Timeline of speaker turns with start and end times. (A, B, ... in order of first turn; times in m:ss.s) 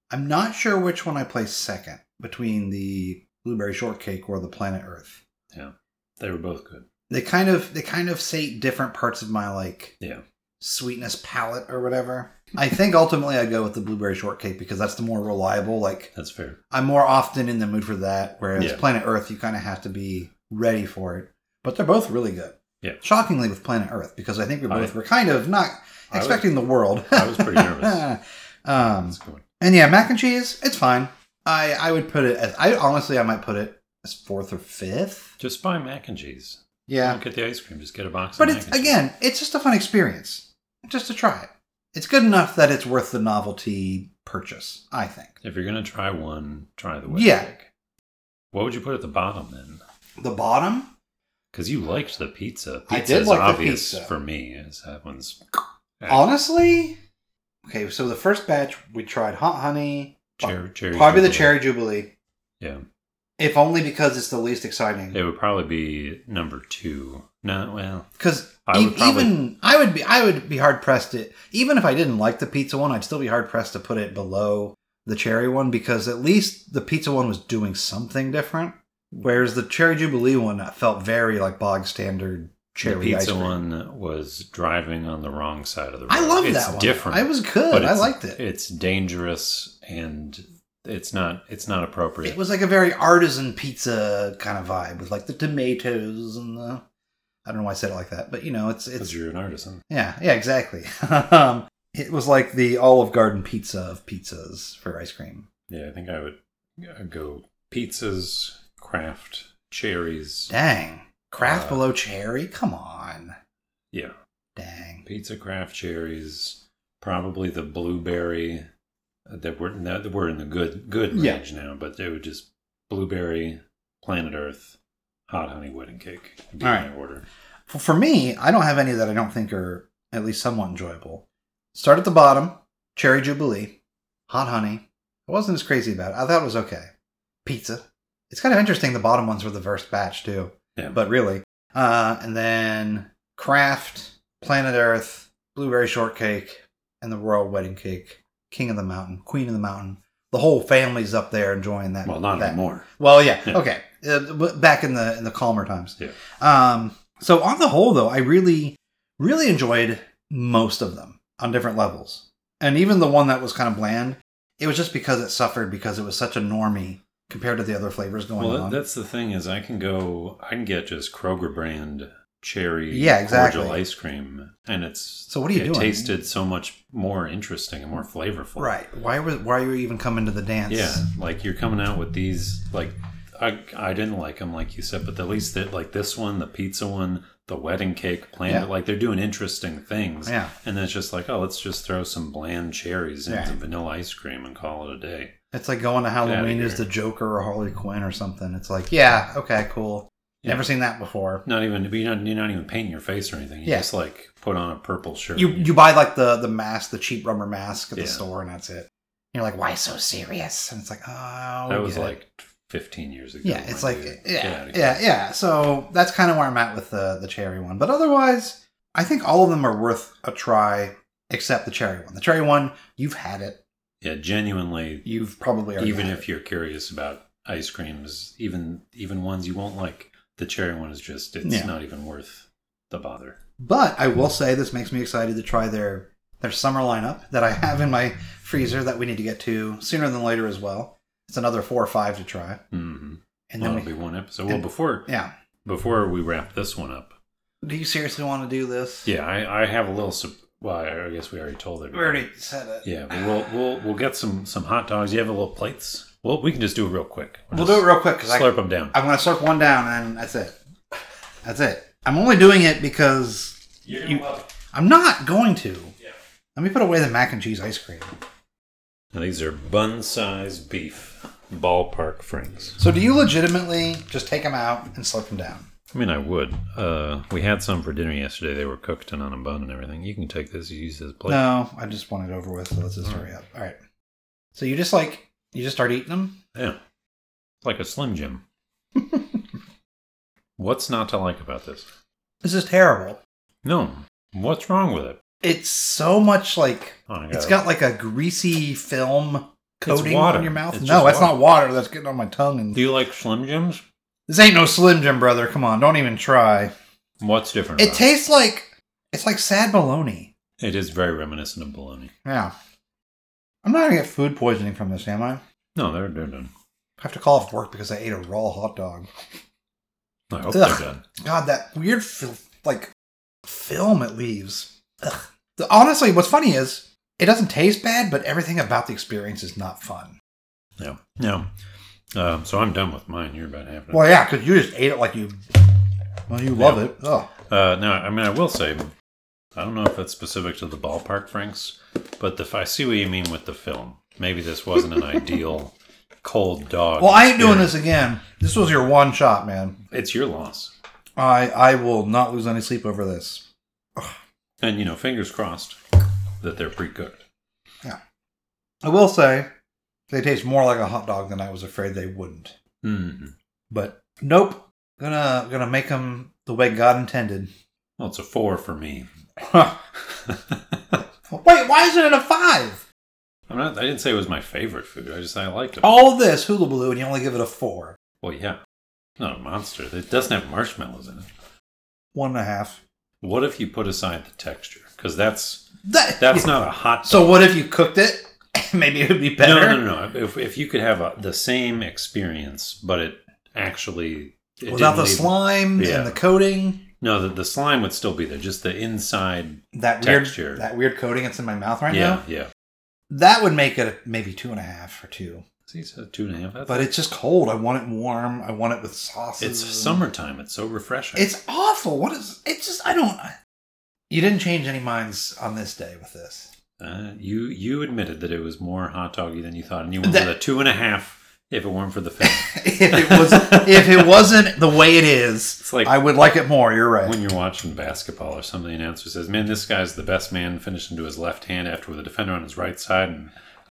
0:00.1-0:05.2 A
0:05.5-0:06.9 B
0:07.1-0:10.0 A
0:10.6-0:16.1 A
0:16.2-0:16.6 B
0:16.7-0:35.3 A
0:18.6-0:18.8 B
0:24.7-0:24.9 B
0:26.1-0:26.6 B
0:27.1-0:28.1 B
0:29.0-0:29.4 B
0:35.4-0:39.0 B
0:36.9-0:37.2 A
0:38.4-0:45.4 A
0:45.4-0:47.7 B
0:47.1-0:47.5 A
0:48.5-0:49.8 B
0:50.2-0:50.9 A
0:51.5-0:55.4 B
0:52.9-0:54.1 A
0:56.0-0:56.3 B
0:56.1-0:57.0 A
0:57.6-1:02.1 A
1:00.4-1:01.6 B
1:03.4-1:05.2 A
1:05.1-1:08.1 B
1:08.2-1:23.6 A
1:08.7-1:09.4 B
1:22.8-1:32.4 B
1:26.1-1:28.4 A
1:32.2-1:36.8 A
1:37.4-1:39.1 A
1:39.0-1:39.8 B
1:39.9-1:45.5 A
1:45.7-1:50.5 B
1:50.5-1:53.4 A
1:51.4-1:51.9 B
1:54.6-1:55.0 A
1:55.0-1:58.7 B
1:59.3-2:04.8 B
2:01.1-2:01.4 A
2:05.3-2:07.3 B
2:06.6-2:06.9 A
2:07.7-2:16.9 A
2:17.4-2:48.8 A
2:32.0-2:32.9 B
2:48.4-2:58.7 B
2:52.9-2:53.8 A
2:55.3-2:56.1 A
2:58.6-3:01.0 A
3:00.7-3:15.3 B
3:10.3-3:10.5 A
3:13.3-3:13.6 A
3:15.5-3:21.4 A
3:16.2-3:16.9 B
3:20.4-3:20.7 B
3:21.4-3:25.7 B
3:25.4-3:32.2 A
3:28.0-3:28.2 B
3:31.7-3:35.0 B
3:33.4-3:43.6 A
3:44.0-3:45.1 B
3:45.0-3:46.2 A
3:45.8-3:53.4 B
3:51.4-3:51.7 A
3:53.6-4:02.6 A
4:02.7-4:05.1 B
4:03.5-4:03.9 A
4:04.5-4:05.3 A
4:05.6-4:07.2 B
4:07.6-4:09.1 A
4:09.0-4:12.3 B
4:11.9-4:12.9 A
4:12.8-4:19.0 B
4:17.5-4:20.6 A
4:21.4-4:25.9 A
4:23.8-4:24.5 B
4:26.6-4:28.1 A
4:29.1-4:32.8 B
4:32.8-4:35.7 A
4:35.9-4:41.4 B
4:41.3-4:43.8 A
4:44.5-4:46.4 A
4:46.5-4:46.8 B
4:47.6-4:48.4 B
4:50.6-4:51.9 B
4:52.4-4:53.2 A
4:53.6-4:55.2 B
4:55.4-5:02.8 A
4:57.1-4:57.6 B
4:59.8-5:01.4 B
5:02.7-5:03.8 B
5:04.3-5:06.7 A
5:07.2-5:08.1 B
5:07.8-5:10.3 A
5:10.6-5:12.1 B
5:12.2-5:12.5 A
5:13.6-5:15.4 A
5:15.8-5:16.5 B
5:17.0-5:19.1 A
5:20.3-5:21.0 B
5:20.5-5:22.9 A
5:23.4-5:30.2 A
5:30.8-5:31.5 B
5:32.1-5:34.1 B
5:33.9-5:35.6 A
5:36.3-5:37.3 A
5:36.6-5:36.9 B
5:37.5-5:38.9 B
5:39.6-5:47.8 B
5:47.0-5:49.8 A
5:49.9-5:50.7 B
5:51.2-5:54.2 A
5:54.6-5:55.8 B
5:56.4-5:57.2 B
5:58.8-5:59.5 A
6:00.1-6:02.6 A
6:02.8-6:03.3 B
6:03.7-6:07.5 A
6:08.0-6:09.1 B
6:09.4-6:09.8 A
6:10.1-6:11.0 B
6:11.3-6:12.8 A
6:13.5-6:16.1 B
6:15.8-6:18.0 A
6:18.2-6:18.6 B
6:19.2-6:21.3 B
6:22.1-6:22.8 A
6:23.2-6:27.5 B
6:25.8-6:26.5 A
6:27.0-6:29.8 A
6:29.4-6:36.2 B
6:34.7-6:36.9 A
6:37.0-6:40.7 B
6:39.7-6:42.2 A
6:41.9-6:42.5 B
6:43.1-6:45.4 A
6:45.7-6:46.9 B
6:46.7-6:50.0 A
6:49.4-6:51.3 B
6:51.2-6:53.4 A
6:54.1-6:56.5 A
6:56.8-7:04.1 B
7:02.2-7:07.2 A
7:05.6-7:06.0 B
7:07.0-7:13.3 B